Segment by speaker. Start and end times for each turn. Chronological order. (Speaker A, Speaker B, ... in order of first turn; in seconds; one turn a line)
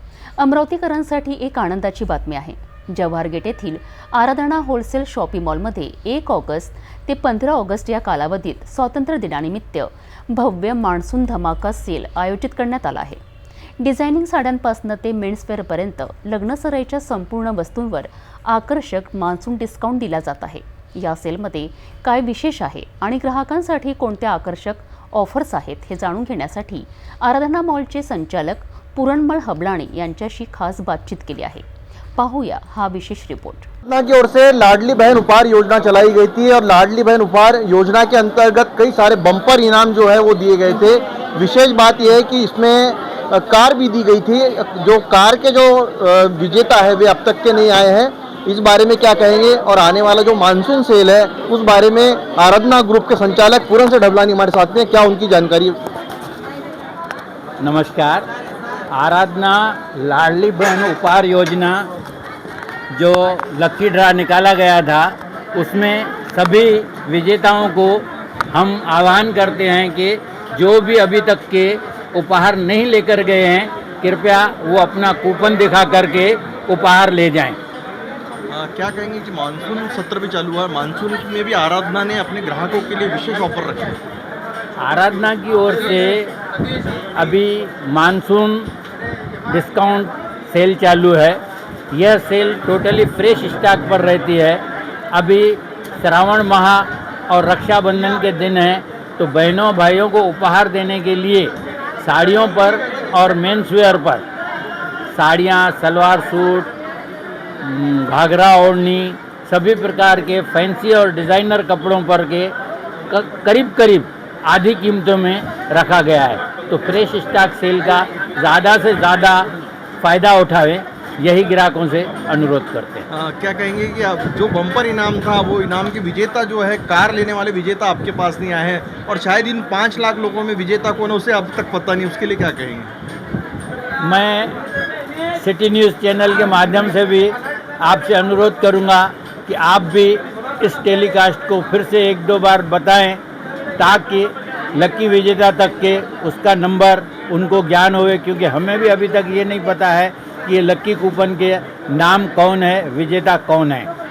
Speaker A: 0.4-13.2
Speaker A: 13.8-33.7
Speaker B: 33.9-55.8
Speaker C: 57.6-58.2
Speaker C: 58.9-61.9
Speaker C: 62.9-77.6
Speaker B: 78.5-83.9
Speaker C: 84.8-86.3
Speaker C: 87.1-88.7
Speaker C: 89.5-91.4
Speaker C: 91.9-104.2
Speaker C: 105.1-106.7
Speaker C: 107.6-112.5
Speaker C: 113.1-123.1
Speaker B: 123.1-132.9
Speaker C: 134.0-134.5
Speaker C: 135.3-143.2
Speaker C: 143.8-153.9